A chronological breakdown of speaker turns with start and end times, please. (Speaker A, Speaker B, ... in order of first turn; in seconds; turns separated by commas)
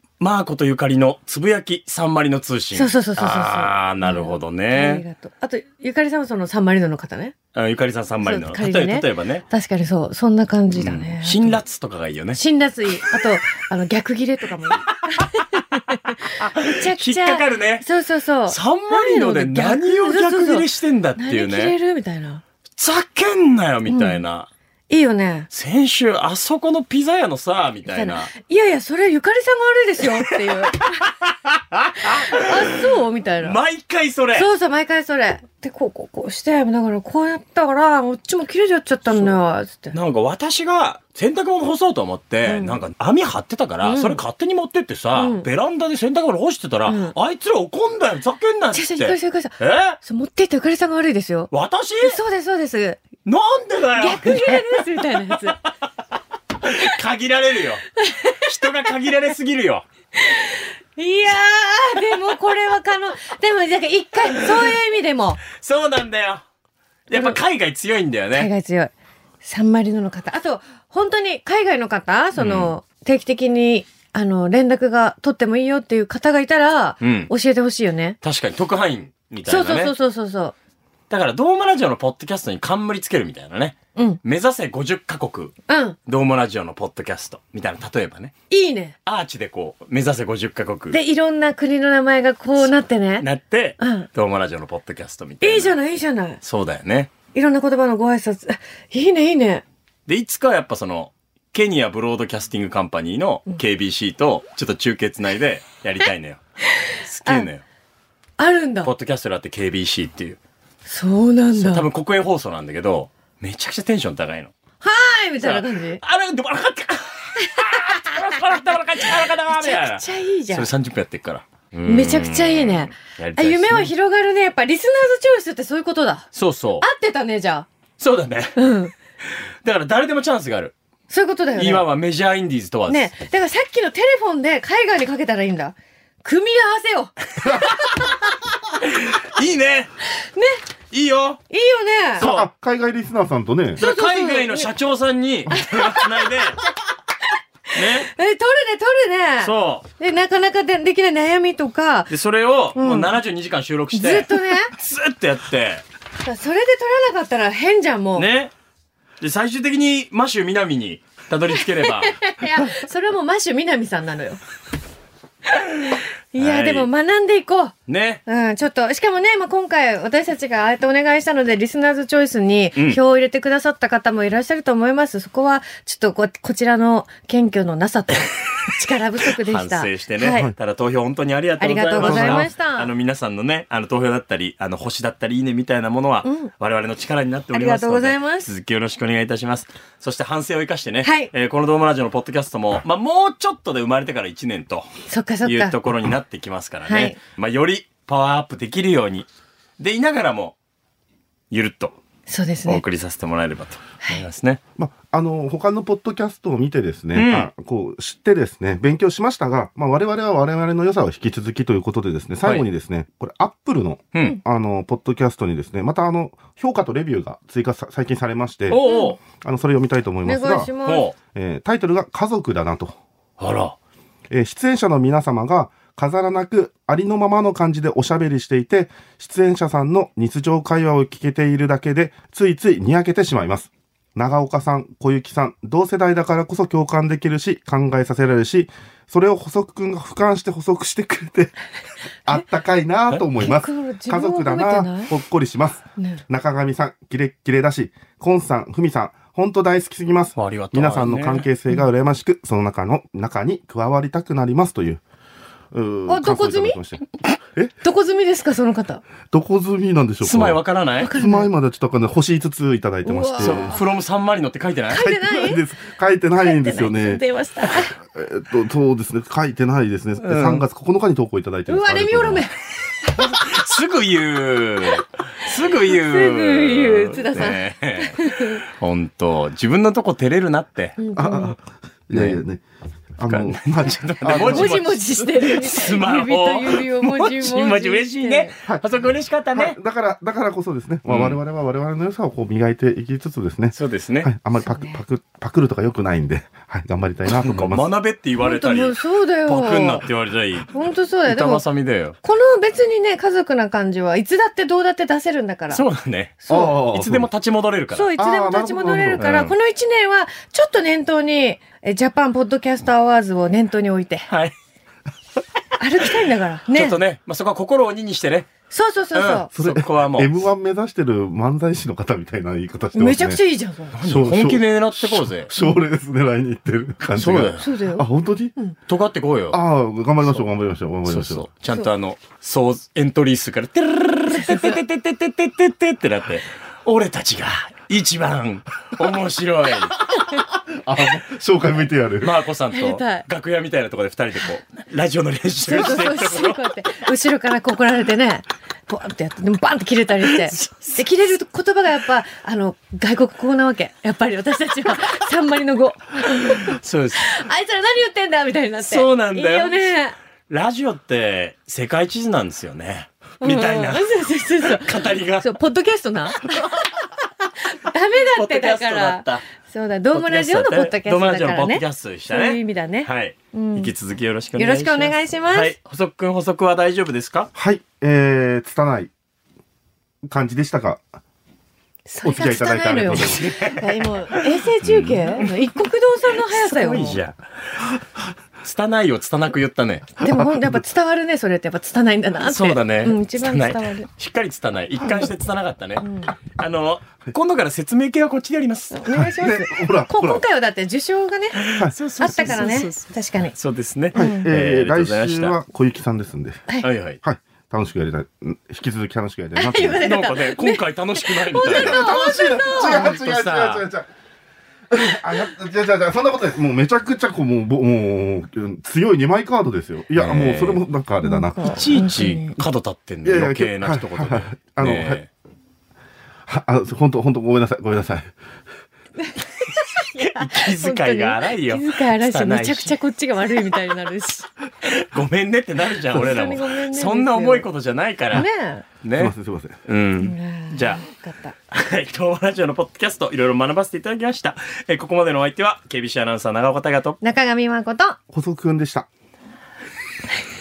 Speaker A: 0.2-5.0, Speaker B: 2.7-7.3, Speaker A: 7.5-9.5, Speaker B: 8.2-11.6, Speaker A: 10.7-12.4, Speaker B: 12.3-22.4, Speaker A: 15.2-15.6, Speaker A: 16.4-17.9, Speaker A: 18.5-21.8, Speaker A: 22.8-24.5, Speaker B: 23.9-24.2, Speaker B: 24.9-25.5, Speaker A: 25.5-28.3, Speaker B: 27.9-31.1, Speaker A: 31.0-32.9, Speaker B: 32.0-33.6, Speaker A: 33.4-34.5, Speaker B: 34.3-40.0, Speaker A: 39.1-39.4, Speaker A: 39.9-50.0, Speaker B: 42.5-42.8, Speaker B: 43.8-44.2, Speaker B: 45.1-45.5, Speaker B: 46.9-47.1, Speaker B: 48.7-51.5, Speaker A: 51.5-52.2, Speaker B: 52.0-53.0, Speaker A: 53.2-54.6, Speaker B: 54.0-55.6, Speaker A: 56.6-57.8, Speaker B: 58.0-58.7, Speaker A: 58.5-59.9, Speaker B: 60.2-65.4, Speaker A: 64.4-64.7, Speaker A: 65.5-66.4, Speaker A: 67.1-68.5, Speaker B: 67.1-67.4, Speaker B: 68.3-68.9, Speaker B: 69.4-78.2, Speaker A: 72.4-72.7, Speaker A: 77.0-77.3, Speaker A: 78.2-79.9, Speaker B: 79.5-80.5, Speaker A: 81.1-85.5, Speaker B: 85.7-86.0, Speaker A: 86.1-88.3, Speaker B: 88.5-89.0, Speaker A: 89.1-91.0, Speaker B: 90.9-93.3, Speaker A: 92.6-95.8, Speaker B: 93.8-94.1, Speaker B: 95.4-96.4, Speaker A: 96.4-97.1, Speaker B: 97.3-99.6, Speaker A: 100.1-107.6, Speaker B: 108.4-108.9, Speaker A: 108.8-110.4, Speaker B: 110.9-111.9, Speaker A: 111.5-114.5, Speaker B: 114.8-116.0, Speaker A: 115.4-123.9, Speaker B: 117.4-118.4, Speaker B: 119.5-120.7, Speaker B: 121.9-126.3, Speaker A: 126.3-126.9, Speaker B: 126.8-127.7, Speaker A: 128.0-128.7, Speaker B: 128.6-128.9, Speaker A: 129.6-130.7, Speaker B: 131.1-131.9, Speaker A: 131.6-133.1, Speaker B: 132.9-138.2, Speaker A: 138.8-139.9, Speaker B: 140.2-140.6, Speaker A: 140.9-141.4, Speaker B: 141.5-142.3, Speaker A: 142.2-142.5, Speaker C: 142.2-143.8, Speaker A: 143.8-146.6, Speaker B: 143.8-144.7, Speaker B: 145.6-146.4, Speaker A: 147.7-148.1, Speaker B: 147.8-152.1, Speaker A: 149.4-149.8, Speaker A: 152.1-155.8, Speaker B: 152.8-153.1, Speaker B: 153.9-154.7, Speaker B: 156.2-158.3, Speaker A: 158.2-158.5, Speaker A: 159.2-162.7, Speaker B: 161.8-164.4, Speaker A: 165.5-166.9, Speaker B: 165.9-167.8, Speaker A: 167.9-168.2, Speaker B: 168.3-180.5, Speaker A: 179.4-194.9, Speaker B: 181.6-182.9, Speaker C: 182.0-182.5, Speaker B: 186.2-186.5, Speaker B: 187.5-188.5, Speaker B: 191.0-191.3, Speaker B: 195.1-195.8, Speaker A: 195.4-199.3, Speaker B: 196.9-197.2, Speaker A: 199.8-200.6, Speaker A: 201.5-202.0, Speaker B: 202.3-202.8, Speaker A: 202.7-204.6, Speaker C: 204.8-220.8, Speaker A: 207.1-207.5, Speaker A: 214.1-214.4, Speaker A: 218.7-219.2, Speaker B: 218.8-219.2, Speaker B: 220.2-221.1, Speaker A: 220.8-221.2, Speaker C: 221.3-223.0, Speaker A: 223.4-223.8, Speaker C: 224.3-241.5, Speaker C: 242.3-255.0, Speaker B: 243.4-245.1, Speaker A: 250.4-251.5, Speaker C: 255.7-257.0, Speaker B: 256.1-256.8, Speaker B: 257.8-259.0, Speaker C: 259.3-260.6, Speaker A: 260.2-261.1, Speaker B: 261.0-261.5, Speaker C: 261.2-263.8, Speaker B: 263.0-263.8, Speaker A: 263.4-265.0, Speaker B: 264.9-265.6, Speaker C: 264.9-267.2, Speaker B: 266.4-268.0, Speaker C: 268.0-272.5, Speaker A: 270.2-270.6, Speaker B: 271.7-273.4, Speaker A: 273.2-281.0, Speaker B: 275.9-278.6, Speaker B: 281.0-281.6, Speaker C: 281.1-282.6, Speaker A: 282.1-282.4, Speaker C: 283.2-284.8, Speaker A: 283.3-289.8, Speaker B: 284.4-288.5, Speaker C: 289.5-297.9, Speaker A: 291.1-291.4, Speaker A: 293.7-294.3, Speaker B: 294.6-295.0, Speaker A: 297.4-300.8, Speaker B: 298.4-300.0, Speaker B: 300.7-301.6, Speaker A: 301.3-302.2, Speaker B: 302.2-305.8, Speaker A: 305.7-308.1, Speaker B: 306.4-306.8, Speaker C: 306.5-307.3, Speaker B: 307.9-314.3, Speaker C: 308.2-309.4, Speaker A: 309.2-309.6, Speaker A: 314.3-314.5, Speaker B: 315.8-317.0, Speaker A: 316.7-318.5, Speaker B: 318.7-319.5, Speaker A: 319.1-320.4, Speaker C: 319.6-323.4, Speaker B: 322.9-324.0, Speaker A: 324.0-325.5, Speaker C: 324.0-328.5, Speaker A: 327.1-327.6, Speaker B: 327.6-328.1, Speaker A: 328.9-329.6, Speaker C: 329.5-331.5, Speaker A: 331.1-340.0, Speaker B: 334.3-334.8, Speaker C: 340.7-342.4, Speaker A: 342.2-346.6, Speaker B: 342.7-343.2, Speaker B: 345.6-360.2, Speaker A: 350.3-351.0, Speaker A: 356.7-357.4, Speaker A: 358.8-359.9, Speaker A: 360.5-365.5, Speaker B: 363.4-366.9, Speaker B: 367.6-373.9, Speaker A: 368.4-369.4, Speaker A: 370.1-377.5, Speaker B: 374.6-375.8, Speaker C: 377.6-379.1, Speaker C: 380.3-381.0, Speaker B: 382.1-387.2, Speaker C: 382.2-383.6, Speaker A: 383.1-385.5, Speaker A: 386.4-387.4, Speaker A: 388.6-390.1, Speaker B: 390.2-394.1, Speaker C: 390.2-390.8, Speaker A: 392.4-399.0, Speaker B: 396.0-396.3, Speaker B: 398.9-403.6, Speaker C: 399.1-400.4, Speaker A: 401.6-405.6, Speaker C: 401.8-402.7, Speaker C: 404.1-410.2, Speaker B: 404.1-404.5, Speaker A: 406.8-407.2, Speaker B: 409.6-413.1, Speaker A: 410.0-412.2, Speaker C: 411.6-414.1, Speaker A: 412.7-413.8, Speaker C: 414.9-421.8, Speaker A: 420.2-420.8, Speaker B: 421.2-422.6, Speaker A: 421.6-425.3, Speaker C: 423.2-425.2, Speaker C: 426.5-428.3, Speaker B: 429.2-434.5, Speaker A: 430.1-432.9, Speaker A: 434.8-438.5, Speaker B: 436.1-437.7, Speaker B: 438.3-438.9, Speaker A: 439.0-439.3, Speaker C: 439.2-439.8, Speaker A: 439.9-441.0, Speaker B: 440.2-441.6, Speaker A: 441.7-447.2, Speaker B: 447.2-448.2, Speaker C: 448.3-449.1